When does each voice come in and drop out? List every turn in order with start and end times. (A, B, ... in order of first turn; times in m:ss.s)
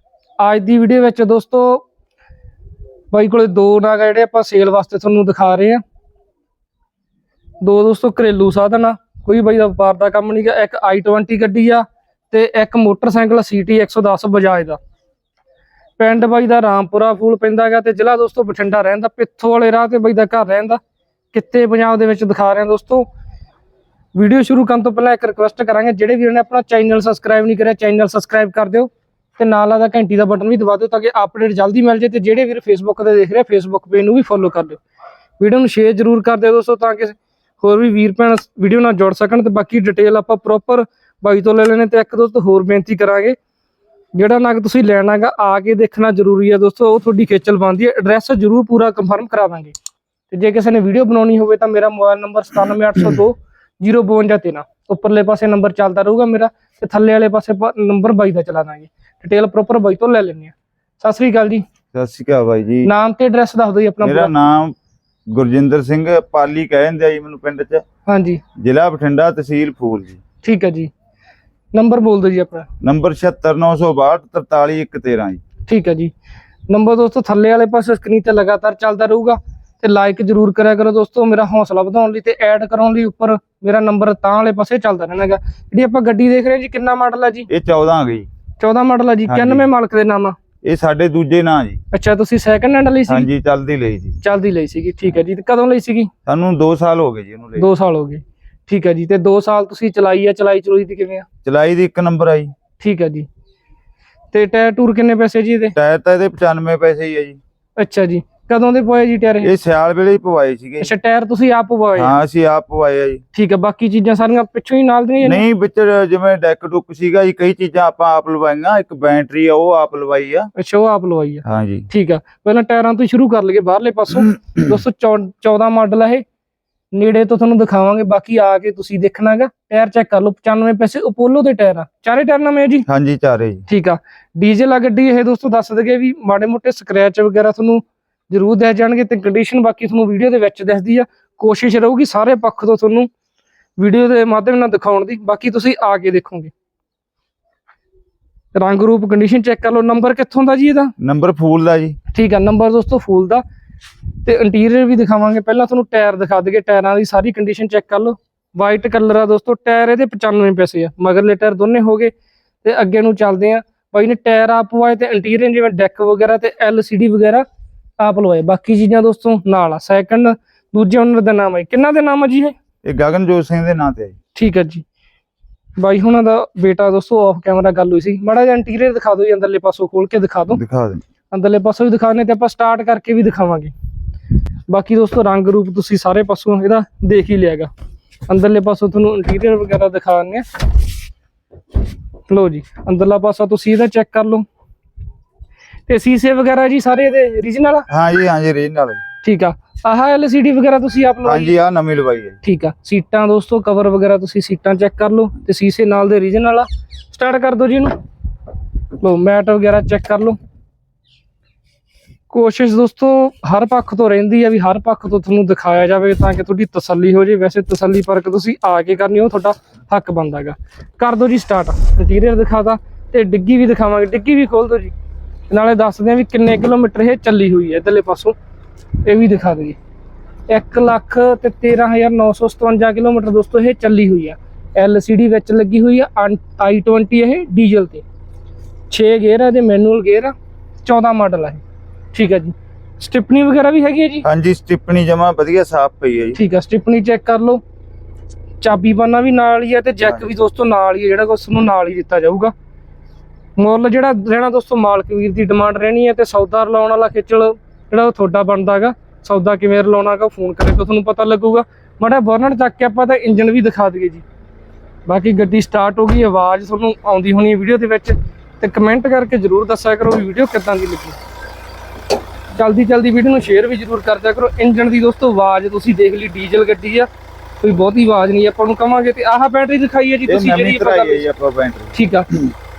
0:00.4-0:01.8 A
0:03.1-0:05.8 A
0:07.6-0:14.8 A
0:16.0-0:20.8 A
0:21.3-0:23.0 A
0:24.1-0:34.8 A
0:35.4-0:43.3 A
0:44.1-0:49.7 A
0:50.3-1:01.6 A
1:01.9-1:02.9 B
1:02.8-1:04.3 A
1:04.0-1:04.7 B
1:05.3-1:07.8 B
1:08.0-1:08.4 A
1:08.6-1:10.2 B
1:10.4-1:10.9 A
1:11.7-1:12.7 A
1:12.8-1:15.4 B
1:15.7-1:16.1 A
1:16.7-1:27.5 A
1:27.5-1:28.3 B
1:28.6-1:30.4 A
1:29.3-1:29.7 B
1:30.6-1:31.8 B
1:31.9-1:33.3 A
1:33.1-1:34.2 B
1:34.2-1:36.1 A
1:36.3-1:37.7 B
1:37.6-1:41.2 A
1:41.4-1:42.5 B
1:42.8-1:43.3 A
1:44.3-1:45.7 A
1:45.8-1:47.4 B
1:47.8-1:49.5 A
1:49.4-1:50.9 B
1:50.8-1:52.1 A
1:52.0-1:53.2 B
1:53.3-1:55.4 A
1:55.2-2:00.5 B
2:00.6-2:06.2 A
2:01.4-2:01.9 B
2:04.2-2:04.8 B
2:06.9-2:12.8 A
2:12.9-2:13.6 B
2:13.7-2:23.1 A
2:23.8-2:26.5 A
2:28.5-2:30.9 A
2:31.0-2:32.0 B
2:32.1-2:33.4 A
2:34.2-2:42.1 A
2:42.6-2:47.4 A
2:48.0-2:52.5 A
2:52.8-2:54.1 B
2:54.3-2:54.8 A
2:55.8-3:00.6 A
3:00.5-3:01.0 B
3:01.3-3:03.7 A
3:04.7-3:07.7 A
3:08.3-3:10.4 A
3:12.3-3:14.4 A
3:15.9-3:17.8 A
3:17.9-3:19.0 B
3:19.2-3:21.5 A
3:21.2-3:22.4 B
3:22.4-3:27.9 A
3:29.0-3:30.4 A
3:32.3-3:44.9 A
3:45.5-3:48.4 A
3:49.0-3:49.8 A
3:50.5-3:58.0 A
3:58.9-4:01.6 A
4:02.1-4:04.2 A
4:04.2-4:06.4 B
4:06.3-4:07.6 A
4:08.6-4:12.5 A
4:13.6-4:24.2 A
4:25.0-4:31.2 A
4:32.5-4:37.1 A
4:37.6-4:41.2 A
4:40.3-4:42.4 B
4:41.9-4:42.3 A